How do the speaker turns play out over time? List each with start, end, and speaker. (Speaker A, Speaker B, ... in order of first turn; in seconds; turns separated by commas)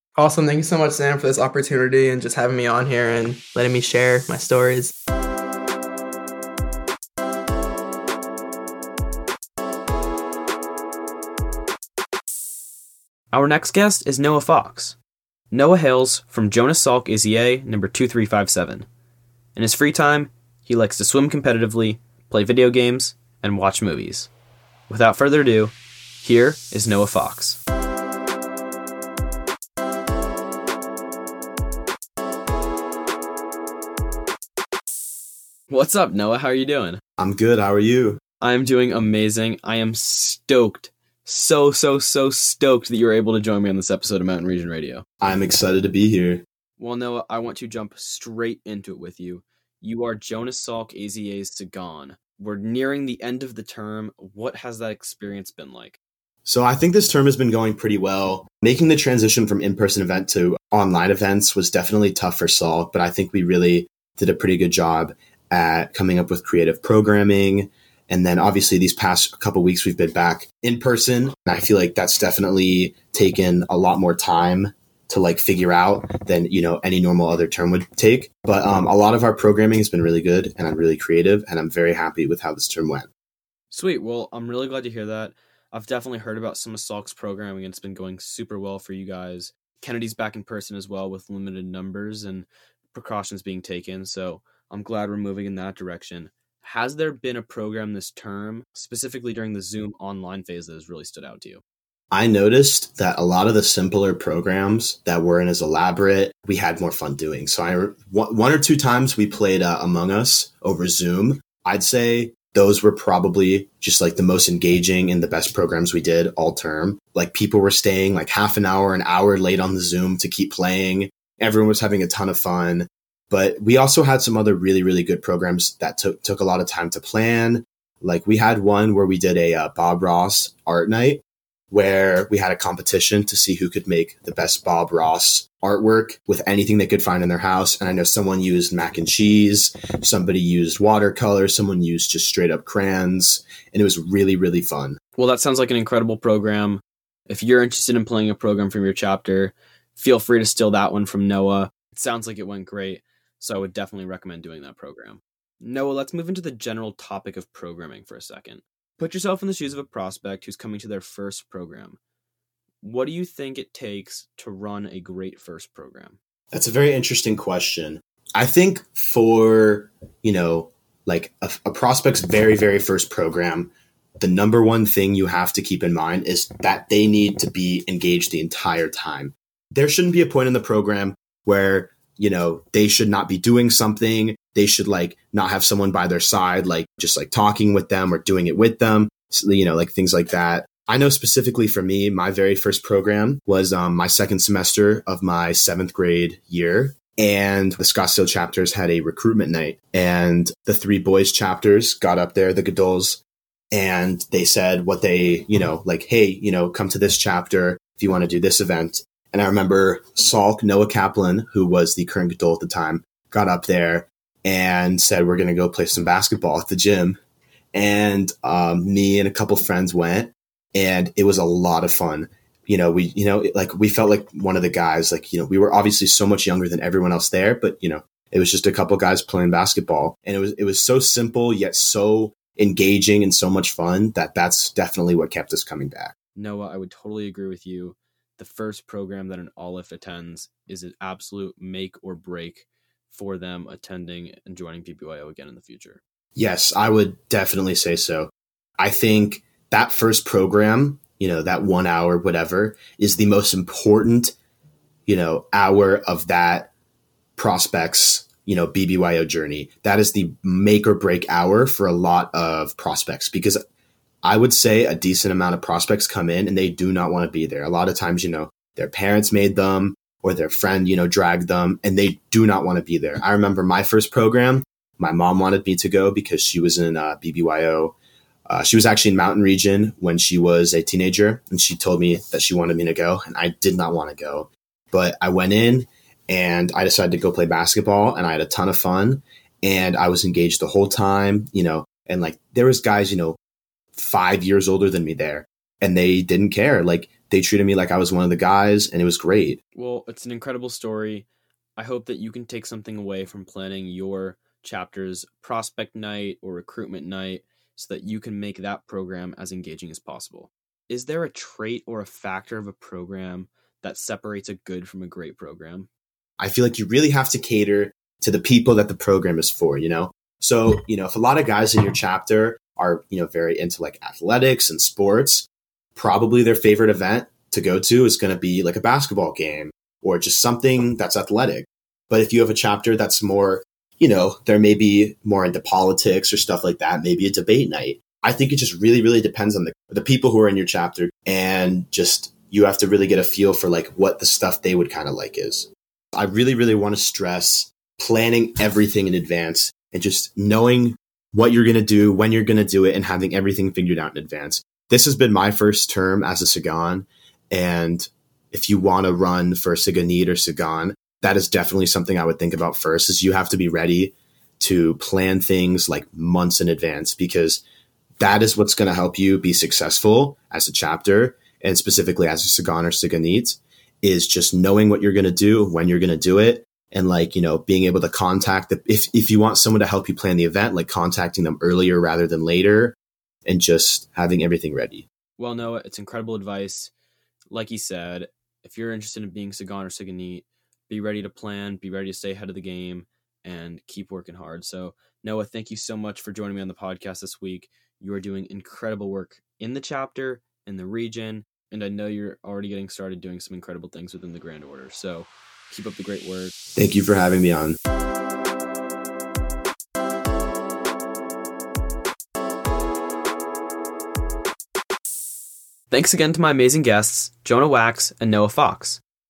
Speaker A: 0.2-4.9, Speaker B: 13.3-15.0, Speaker B: 15.5-18.9, Speaker B: 19.6-24.3, Speaker B: 24.9-27.6, Speaker B: 35.7-37.0, Speaker C: 37.2-38.2, Speaker B: 38.4-45.0, Speaker C: 45.2-46.4, Speaker B: 46.8-56.0, Speaker C: 56.5-83.1, Speaker B: 83.7-101.6, Speaker C: 102.1-145.0, Speaker B: 145.2-162.0, Speaker B: 162.8-166.2, Speaker C: 166.5-203.2, Speaker C: 203.7-217.2, Speaker C: 217.7-236.1, Speaker B: 236.3-246.0, Speaker C: 246.3-254.3, Speaker C: 255.1-256.7, Speaker C: 257.4-263.6, Speaker C: 264.2-277.9, Speaker C: 278.5-293.4, Speaker C: 293.9-299.6, Speaker B: 299.8-301.3, Speaker B: 301.8-315.9, Speaker C: 316.4-367.6, Speaker C: 368.2-385.1, Speaker B: 385.4-386.9, Speaker B: 387.5-406.5, Speaker C: 406.8-407.8, Speaker B: 415.9-419.0